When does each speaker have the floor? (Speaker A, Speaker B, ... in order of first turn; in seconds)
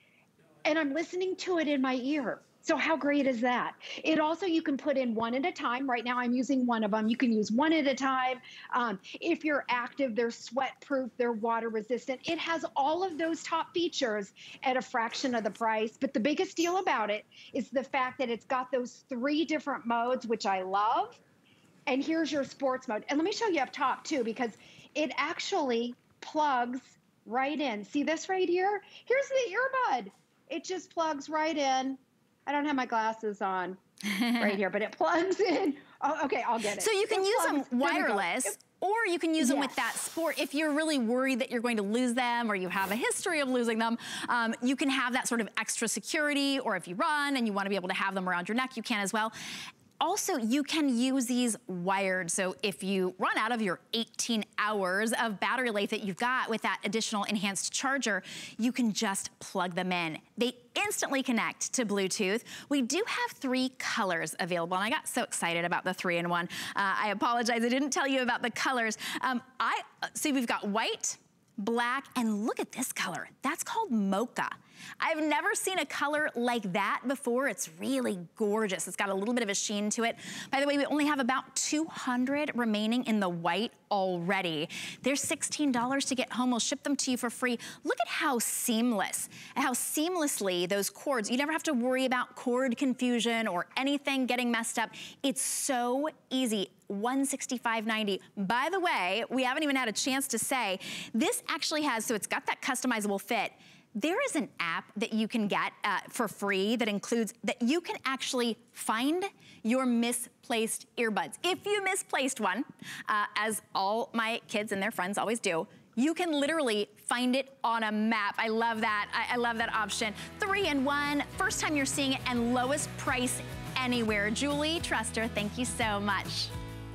Speaker A: 0.6-21.2, 21.9-33.8, 34.4-38.5, 39.4-39.8
Speaker B: 34.1-34.5, 36.7-49.3, 50.0-126.5